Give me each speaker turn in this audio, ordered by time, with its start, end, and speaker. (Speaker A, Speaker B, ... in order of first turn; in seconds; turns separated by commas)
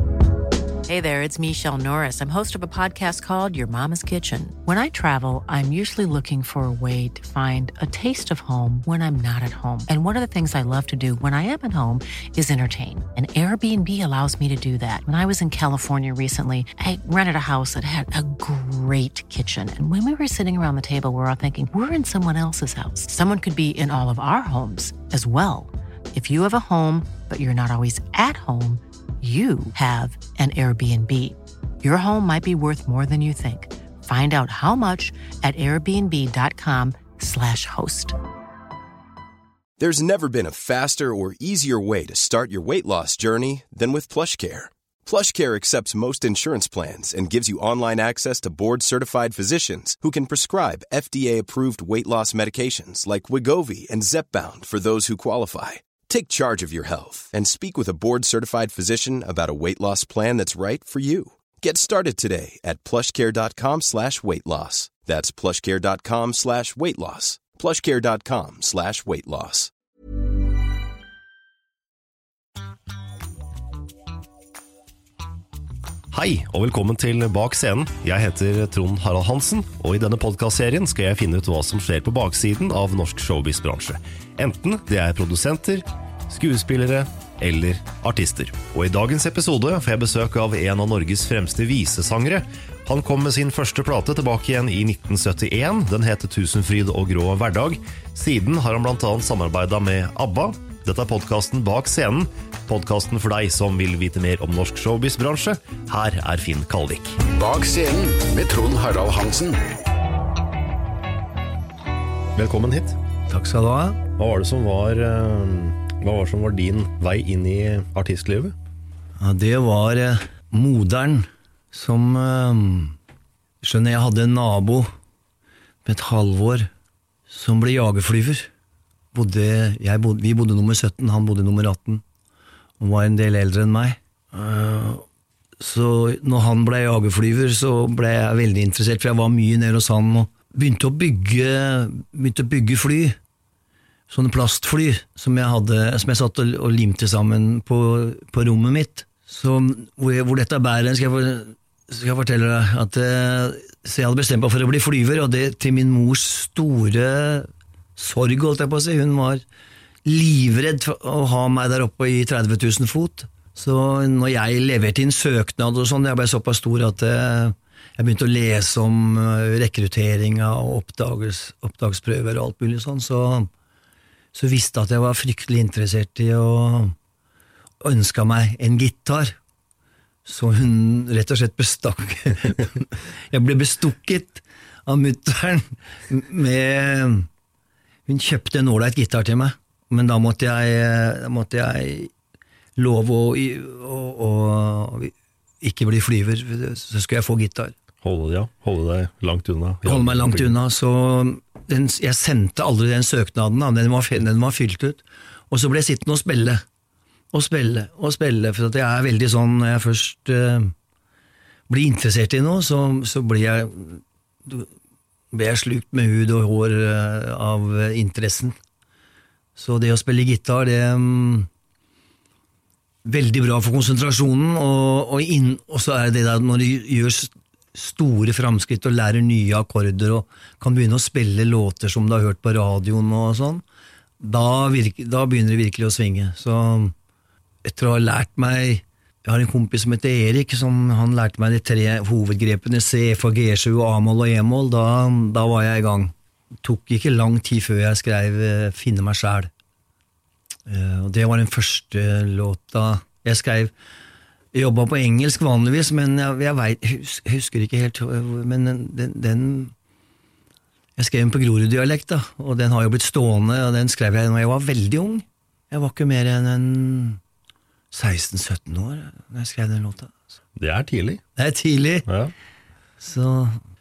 Speaker A: 0.8-38.1, Speaker B: 39.8-69.7, Speaker C: 76.1-107.2, Speaker D: 107.3-109.6, Speaker C: 112.3-113.0, Speaker E: 113.3-114.0, Speaker C: 114.2-118.5, Speaker E: 119.2-123.0, Speaker E: 123.6-124.9, Speaker E: 125.8-126.7, Speaker E: 127.3-128.5, Speaker E: 129.1-132.0, Speaker E: 132.8-135.0, Speaker E: 135.6-143.2, Speaker E: 144.1-159.4, Speaker E: 160.0-173.5, Speaker E: 174.3-176.9, Speaker E: 177.8-179.3, Speaker E: 180.2-187.3, Speaker E: 188.1-192.1, Speaker E: 192.8-197.7, Speaker C: 198.0-200.6, Speaker E: 199.8-206.6, Speaker E: 207.3-210.7, Speaker E: 211.7-214.7, Speaker E: 215.3-218.6, Speaker E: 219.6-221.5, Speaker E: 223.0-233.6, Speaker E: 234.2-236.9, Speaker E: 237.6-246.1, Speaker E: 246.6-249.5, Speaker E: 250.7-253.7, Speaker E: 254.5-259.7, Speaker E: 261.0-267.2, Speaker E: 267.9-270.1, Speaker C: 270.6-271.2, Speaker E: 271.4-272.1, Speaker C: 272.1-272.3, Speaker E: 273.0-273.6